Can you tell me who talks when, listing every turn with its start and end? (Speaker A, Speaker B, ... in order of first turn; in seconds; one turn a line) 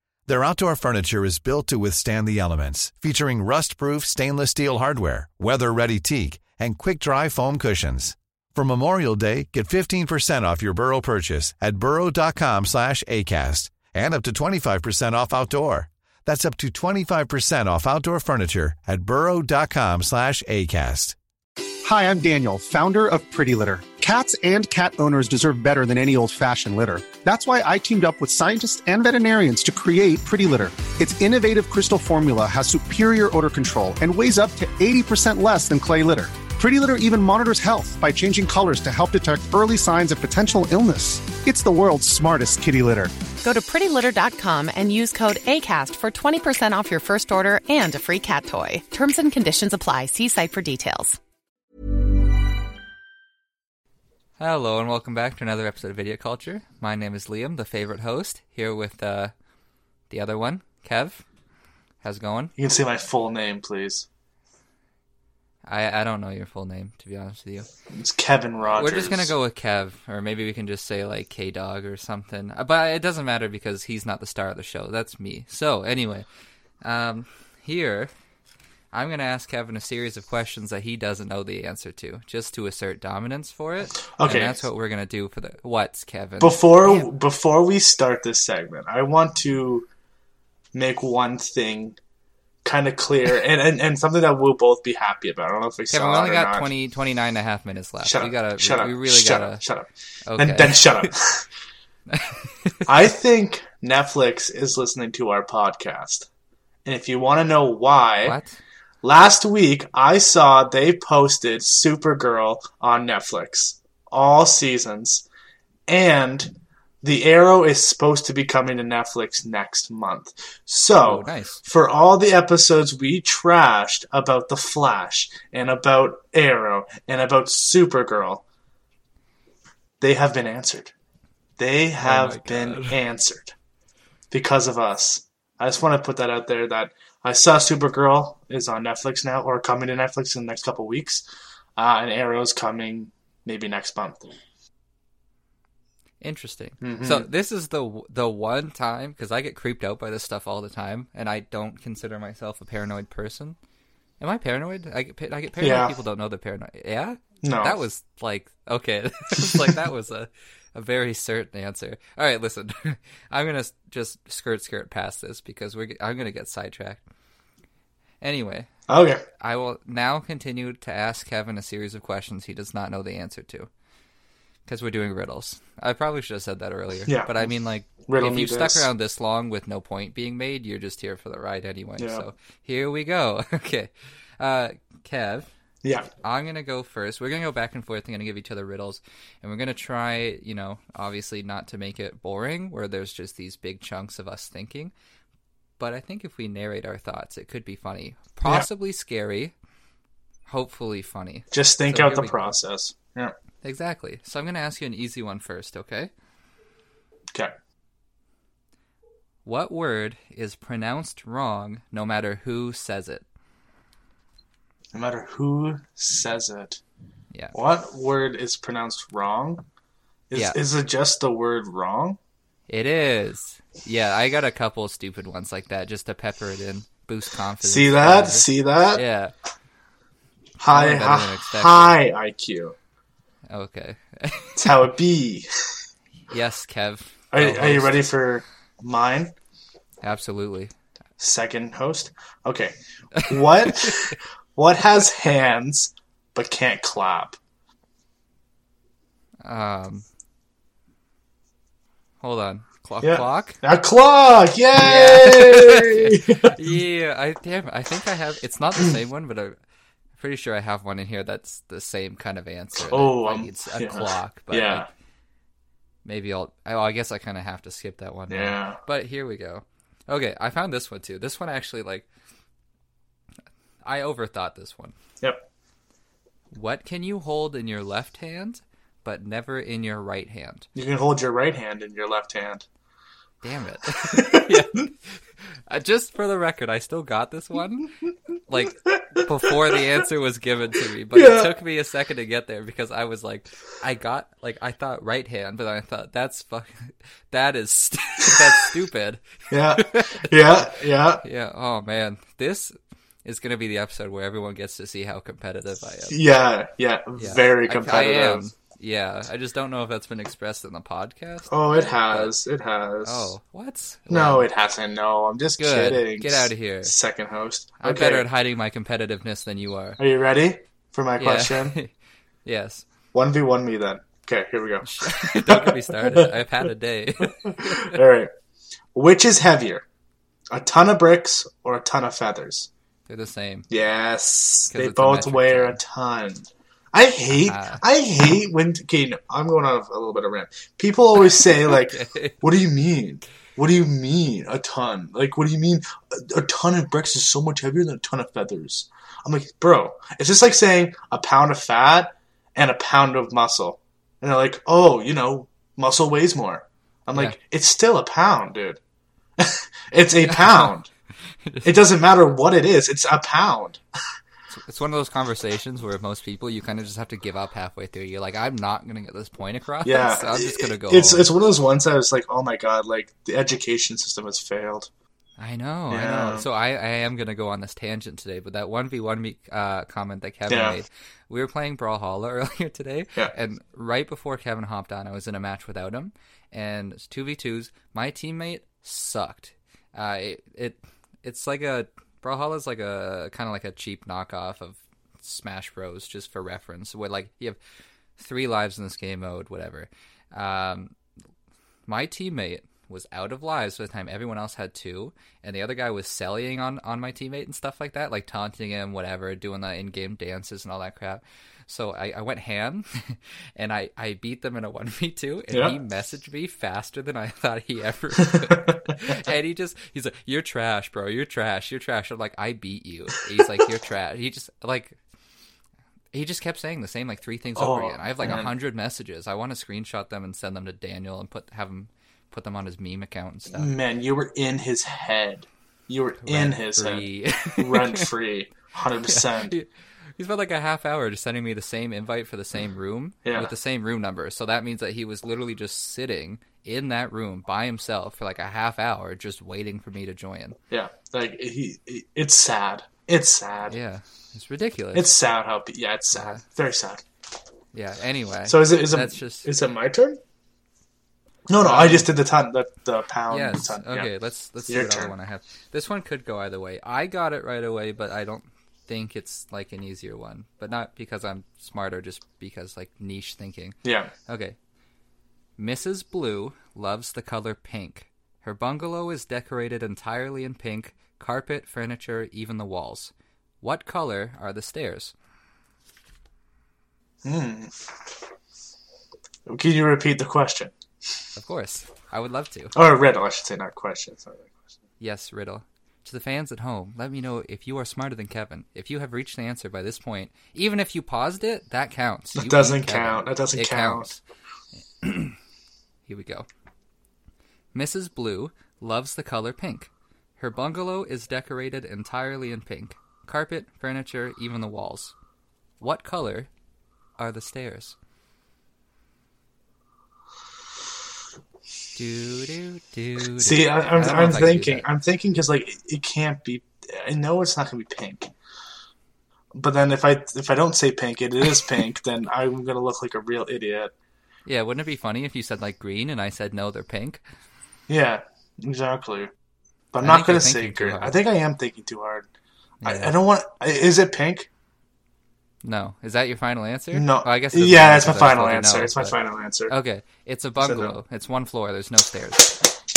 Speaker A: 0.3-21.1
Speaker B: 21.8-43.1
Speaker C: 43.4-51.2
Speaker D: 54.4-59.3
Speaker D: 60.1-61.2
Speaker D: 62.0-62.5
Speaker E: 62.6-64.0
Speaker D: 65.7-67.7
Speaker E: 67.9-69.3
Speaker D: 68.7-76.2
Speaker D: 76.8-78.1
Speaker D: 78.9-87.0
Speaker E: 84.2-84.7
Speaker E: 86.4-89.8
Speaker E: 90.7-92.0
Speaker E: 92.6-96.7
Speaker D: 95.9-99.6
Speaker E: 98.0-101.4
Speaker D: 100.3-101.1
Speaker D: 102.1-102.8
Speaker E: 102.8-106.3
Speaker E: 106.8-108.3
Speaker D: 108.2-108.6
Speaker E: 109.0-115.2
Speaker E: 115.9-116.5
Speaker E: 117.0-128.4
Speaker D: 121.0-121.6
Speaker E: 130.0-130.9
Speaker E: 131.6-133.5
Speaker D: 132.0-133.0
Speaker E: 134.3-141.2
Speaker E: 141.8-144.3
Speaker D: 146.2-153.6
Speaker E: 146.8-147.3
Speaker D: 154.2-167.0
Speaker E: 155.6-155.9
Speaker E: 157.4-157.7
Speaker D: 168.2-168.7
Speaker E: 168.9-169.2
Speaker D: 169.4-173.7
Speaker D: 174.7-185.5
Speaker E: 178.0-178.9
Speaker E: 182.0-182.2
Speaker D: 186.2-194.9
Speaker D: 195.8-199.5
Speaker D: 200.5-202.3
Speaker E: 201.5-203.3
Speaker D: 203.6-206.1
Speaker D: 209.4-213.2
Speaker E: 214.9-216.8
Speaker E: 217.5-219.6
Speaker E: 220.3-222.2
Speaker D: 222.7-229.3
Speaker E: 227.6-229.0
Speaker E: 230.6-232.7
Speaker D: 230.7-232.0
Speaker D: 233.5-234.7
Speaker E: 234.6-235.4
Speaker D: 236.3-238.1
Speaker E: 237.3-239.3
Speaker D: 240.0-240.7
Speaker E: 241.2-247.4
Speaker D: 243.2-244.0
Speaker D: 249.4-250.0
Speaker D: 252.2-253.6
Speaker E: 253.0-256.6
Speaker D: 254.7-259.6
Speaker D: 260.2-264.9
Speaker E: 262.8-264.9
Speaker D: 266.0-272.1
Speaker E: 268.3-268.8
Speaker D: 273.8-274.9
Speaker D: 276.5-280.7
Speaker E: 280.8-282.6
Speaker D: 283.4-287.9
Speaker E: 284.1-284.5
Speaker D: 288.5-306.2
Speaker E: 288.9-289.8
Speaker E: 291.1-291.5
Speaker E: 299.5-301.2
Speaker E: 306.1-308.4
Speaker D: 307.2-312.3
Speaker E: 311.5-313.3
Speaker D: 313.0-314.5
Speaker E: 314.1-318.2
Speaker D: 315.6-316.9
Speaker D: 317.8-320.0
Speaker E: 320.0-321.8
Speaker D: 321.2-321.9
Speaker D: 322.4-322.8
Speaker E: 323.1-326.3
Speaker D: 324.9-328.0
Speaker E: 327.4-328.3
Speaker E: 328.9-329.8
Speaker E: 330.5-332.7
Speaker D: 333.1-333.7
Speaker E: 333.7-358.8
Speaker D: 334.7-335.8
Speaker D: 337.4-337.8
Speaker D: 341.4-342.3
Speaker E: 359.4-360.9
Speaker D: 360.2-360.7
Speaker E: 361.6-363.8
Speaker D: 364.5-371.3
Speaker E: 369.8-374.9
Speaker D: 375.4-397.6
Speaker E: 375.9-376.4
Speaker E: 380.5-380.8
Speaker D: 398.2-400.9
Speaker D: 401.9-425.0
Speaker E: 418.2-418.9
Speaker D: 426.1-433.7
Speaker E: 427.6-428.5
Speaker E: 433.5-437.0
Speaker D: 436.2-438.1
Speaker E: 437.6-439.5
Speaker D: 439.1-450.6
Speaker E: 443.2-443.5
Speaker E: 450.7-453.8
Speaker D: 453.7-455.1
Speaker E: 454.9-457.0
Speaker D: 456.1-456.4
Speaker D: 457.7-459.5
Speaker E: 458.5-460.2
Speaker E: 461.5-464.1
Speaker D: 461.6-462.1
Speaker D: 463.3-474.6
Speaker E: 464.7-465.1
Speaker E: 473.8-474.1
Speaker D: 475.6-485.1
Speaker E: 487.2-487.8
Speaker E: 489.5-490.7
Speaker D: 491.4-492.7
Speaker E: 492.7-494.5
Speaker D: 495.0-504.2
Speaker E: 502.4-504.1
Speaker D: 505.0-505.4
Speaker D: 506.1-506.5
Speaker D: 507.7-515.1
Speaker D: 515.8-516.5
Speaker D: 517.2-517.9
Speaker D: 521.9-524.8
Speaker E: 523.4-528.3
Speaker E: 529.5-533.9
Speaker D: 534.5-537.2
Speaker E: 537.9-539.3
Speaker E: 539.9-542.3
Speaker D: 540.0-541.2
Speaker D: 542.8-543.1
Speaker E: 542.9-544.5
Speaker D: 545.6-549.2
Speaker E: 546.9-549.7
Speaker D: 549.7-552.6
Speaker E: 550.6-551.0